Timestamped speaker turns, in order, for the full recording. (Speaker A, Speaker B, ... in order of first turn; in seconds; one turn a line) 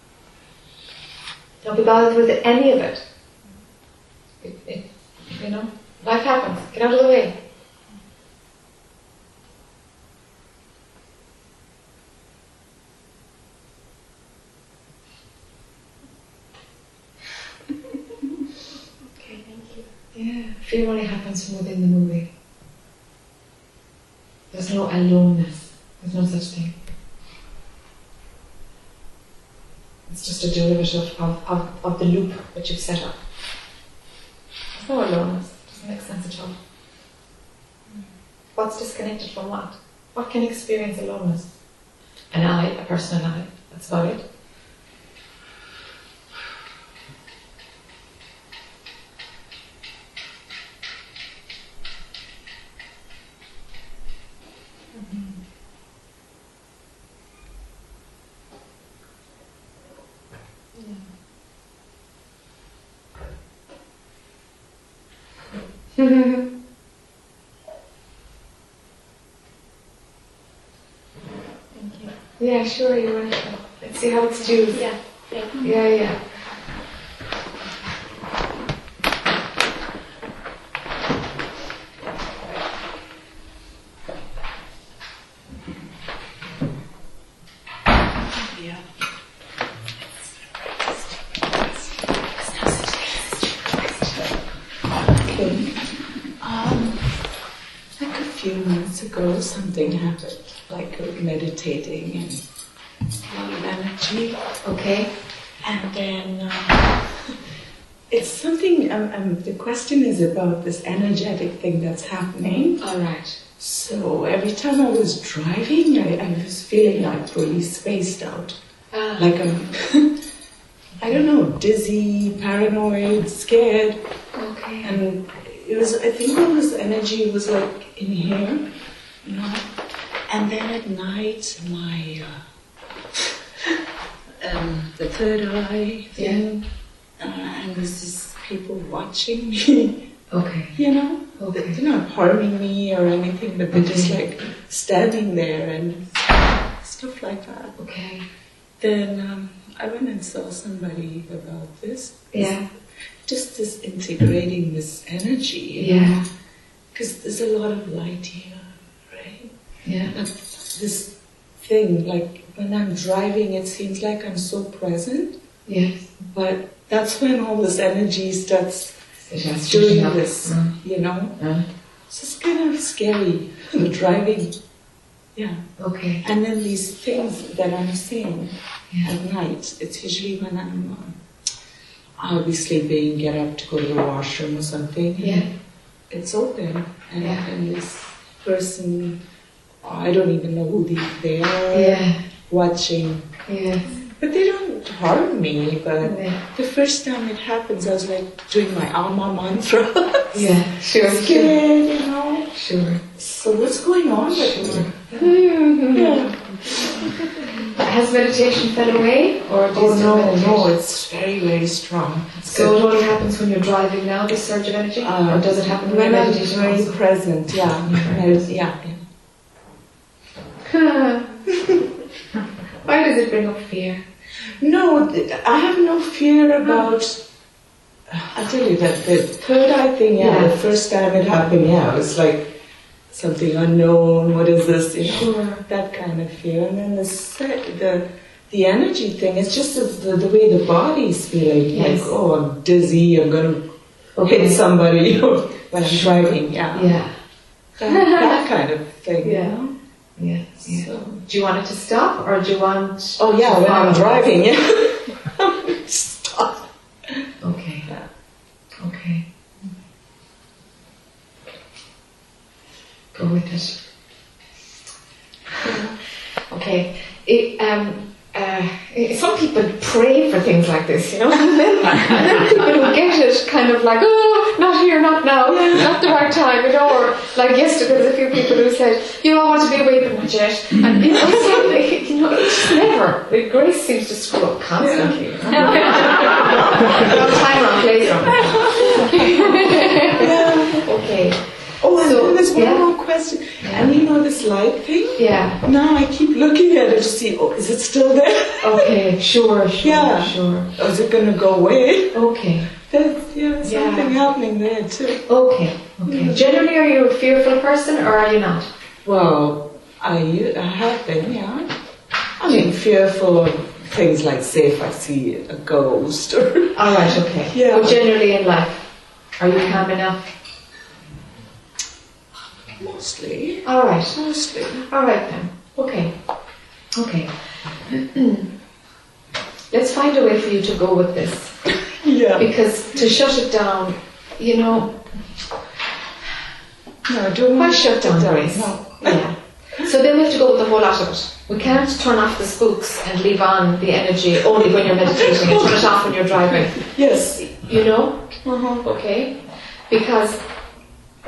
Speaker A: 1.6-3.0
Speaker A: 4.4-7.4
Speaker B: 19.2-19.8
Speaker A: 20.1-22.3
Speaker A: 24.5-26.8
Speaker A: 30.1-33.2
Speaker A: 34.7-36.5
Speaker A: 38.6-41.5
Speaker A: 42.3-44.2
Speaker B: 55.0-55.3
Speaker A: 66.0-66.5
Speaker B: 71.7-72.1
Speaker A: 72.4-74.9
Speaker B: 74.7-75.8
Speaker A: 75.6-76.2
Speaker C: 88.6-88.8
Speaker A: 91.5-94.3
Speaker C: 95.1-95.8
Speaker C: 96.4-97.1
Speaker C: 98.0-102.5
Speaker C: 103.3-104.4
Speaker A: 104.6-105.1
Speaker C: 105.6-107.4
Speaker C: 108.1-112.8
Speaker A: 112.8-113.4
Speaker C: 113.6-118.6
Speaker A: 118.9-119.3
Speaker C: 119.2-120.2
Speaker C: 121.0-124.0
Speaker A: 124.4-125.0
Speaker C: 124.8-128.7
Speaker C: 129.2-129.7
Speaker C: 130.3-132.4
Speaker C: 134.4-136.7
Speaker A: 136.2-136.4
Speaker C: 137.2-140.1
Speaker A: 140.3-140.8
Speaker C: 140.8-147.8
Speaker A: 141.4-141.8
Speaker A: 143.7-144.2
Speaker A: 147.8-148.2
Speaker C: 148.8-152.6
Speaker A: 152.3-152.6
Speaker C: 153.3-156.2
Speaker A: 155.8-156.2
Speaker C: 156.9-159.5
Speaker A: 159.8-160.1
Speaker C: 160.1-165.4
Speaker A: 165.7-166.1
Speaker C: 166.2-169.0
Speaker A: 169.3-170.8
Speaker C: 169.6-171.4
Speaker A: 171.4-171.7
Speaker C: 172.1-174.6
Speaker C: 175.3-175.6
Speaker A: 175.8-176.2
Speaker C: 176.2-181.2
Speaker C: 182.2-185.5
Speaker A: 185.2-185.5
Speaker C: 186.1-189.2
Speaker A: 187.2-187.4
Speaker C: 189.8-193.3
Speaker A: 191.7-192.2
Speaker A: 193.5-194.0
Speaker C: 194.1-202.5
Speaker A: 196.0-196.4
Speaker A: 200.3-201.6
Speaker A: 202.5-203.0
Speaker C: 203.1-205.1
Speaker A: 204.3-206.2
Speaker C: 205.9-207.5
Speaker A: 207.8-210.8
Speaker C: 209.7-212.8
Speaker A: 212.4-217.0
Speaker C: 215.0-219.0
Speaker A: 217.8-218.3
Speaker A: 220.6-221.4
Speaker A: 222.8-224.0
Speaker C: 224.6-227.2
Speaker C: 228.1-232.5
Speaker A: 230.2-230.6
Speaker C: 233.1-243.6
Speaker A: 235.0-235.6
Speaker A: 241.7-242.1
Speaker A: 244.2-244.6
Speaker C: 244.2-247.0
Speaker A: 245.8-247.1
Speaker C: 247.8-249.7
Speaker A: 247.9-248.4
Speaker A: 249.2-249.6
Speaker A: 250.2-254.3
Speaker C: 250.6-251.2
Speaker C: 253.2-257.2
Speaker A: 257.4-257.9
Speaker A: 258.8-259.3
Speaker A: 263.1-263.8
Speaker A: 266.5-292.9
Speaker C: 275.5-276.0
Speaker C: 281.2-281.6
Speaker C: 284.8-291.0
Speaker C: 291.8-299.0
Speaker A: 293.6-293.9
Speaker A: 295.2-295.6
Speaker A: 298.6-300.7
Speaker C: 299.8-302.2
Speaker A: 302.1-302.7
Speaker C: 302.9-305.2
Speaker A: 303.6-304.2
Speaker A: 305.3-308.7
Speaker C: 306.0-306.4
Speaker C: 309.1-311.8
Speaker C: 312.4-318.1
Speaker A: 316.7-320.2
Speaker C: 322.7-324.9
Speaker A: 323.6-324.2
Speaker A: 324.9-326.1
Speaker A: 326.9-327.3
Speaker A: 327.9-328.5
Speaker A: 329.7-331.6
Speaker C: 332.0-332.6
Speaker A: 332.4-335.1
Speaker C: 337.1-339.3
Speaker A: 337.5-350.4
Speaker C: 345.1-347.6
Speaker C: 348.4-348.9